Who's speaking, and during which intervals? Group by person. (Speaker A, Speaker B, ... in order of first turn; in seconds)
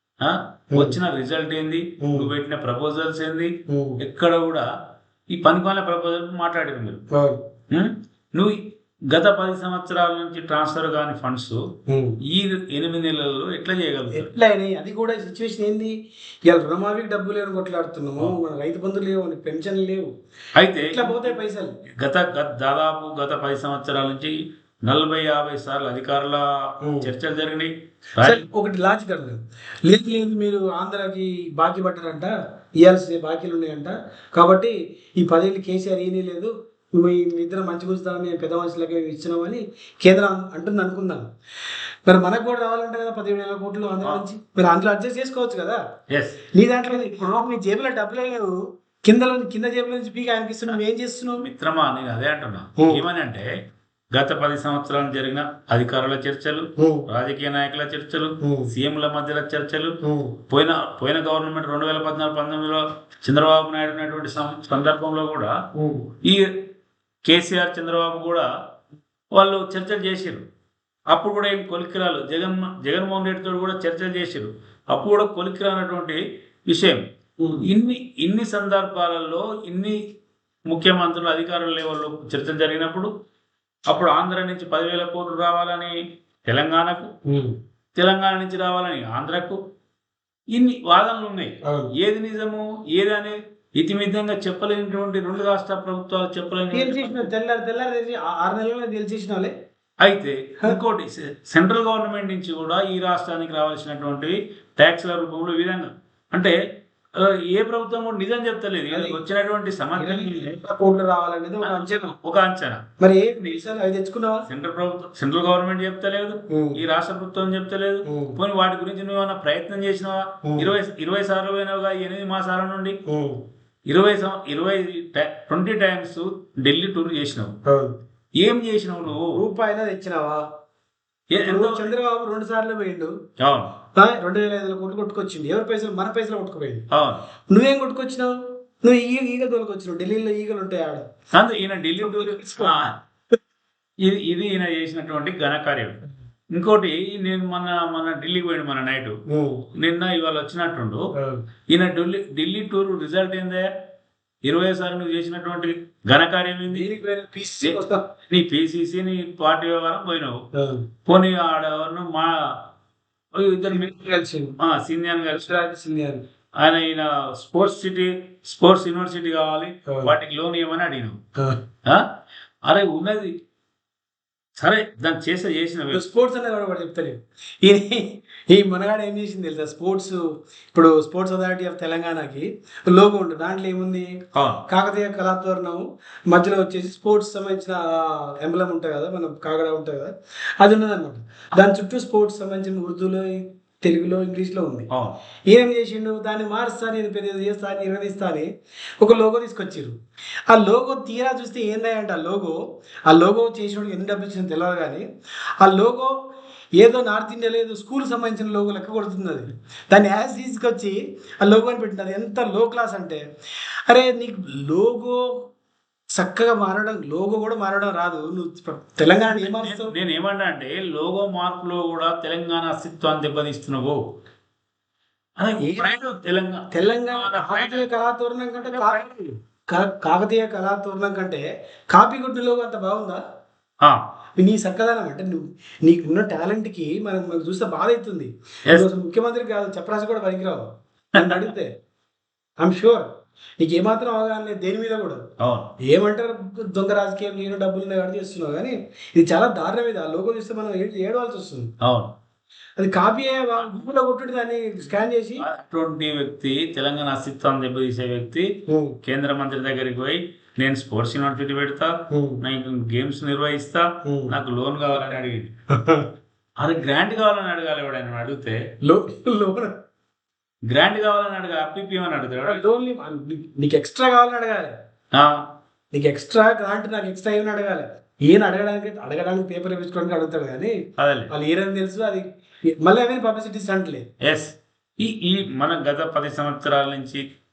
Speaker A: 0.2-4.7, 5.3-7.0, 7.7-8.6, 9.1-11.6, 12.3-14.3, 20.6-21.4, 22.0-24.3, 24.8-28.4, 46.1-46.4, 51.4-53.5, 54.1-59.9, 60.5-65.5, 67.2-68.5, 69.3-70.4, 71.1-77.0, 77.6-80.0, 80.7-83.1, 83.9-85.9, 86.5-87.1, 88.0-89.6, 90.5-97.3, 100.0-106.5, 107.2-110.6, 111.6-112.8, 114.5-123.0, 123.9-127.5, 128.4-129.4, 131.3-131.8, 133.4-133.7, 136.9-137.2, 141.3-142.9, 144.0-146.0, 146.5-149.2, 149.8-151.0, 151.7-153.7, 154.4-156.8, 157.6-160.4, 161.1-162.6, 163.3-163.9, 164.6-165.5, 166.6-171.2, 172.7-173.3, 174.6-176.0, 184.3-184.6, 219.3-224.0, 225.4-227.9, 228.7-229.2, 241.2-241.5, 245.4-245.7, 251.8-252.1, 255.4-258.5, 259.0-265.5, 266.6-268.6, 270.7-272.6, 275.1-275.4, 281.0-281.3, 284.2-287.2
Speaker B: 2.0-2.3, 3.7-4.0, 7.1-7.4, 11.9-12.2, 14.1-15.9, 16.5-20.1, 20.8-21.7, 26.8-27.1, 28.2-41.2, 42.0-45.8, 46.5-48.5, 49.0-51.4, 56.8-57.0, 58.4-58.7, 60.0-60.4, 65.7-66.1, 77.4-77.7, 87.3-87.5, 91.6-91.9, 96.7-99.5, 108.9-109.2, 110.0-112.2, 113.0-114.5, 116.5-116.8, 118.1-118.4, 120.4-120.7, 123.1-123.4, 127.7-127.9, 129.3-130.4, 131.4-133.1, 133.9-136.8, 137.5-138.3, 138.8-141.0, 142.0-142.7, 149.3-149.7, 151.1-151.4, 156.7-158.0, 160.5-160.8, 163.7-164.6, 165.4-166.2, 169.9-170.1, 175.9-180.2, 180.7-184.1, 184.7-194.9, 195.5-198.5, 199.0-199.9, 200.5-205.0, 205.6-206.1, 206.8-213.2, 213.9-215.3, 216.2-219.9, 225.6-226.0, 226.7-229.1, 229.7-233.2, 234.4-241.7, 242.6-243.1, 243.6-245.2, 245.9-251.7, 252.8-255.4, 258.7-259.0, 262.1-262.4, 264.0-264.3, 265.7-266.1, 268.8-269.8, 272.4-274.7, 275.9-280.7, 281.3-282.2, 282.8-284.0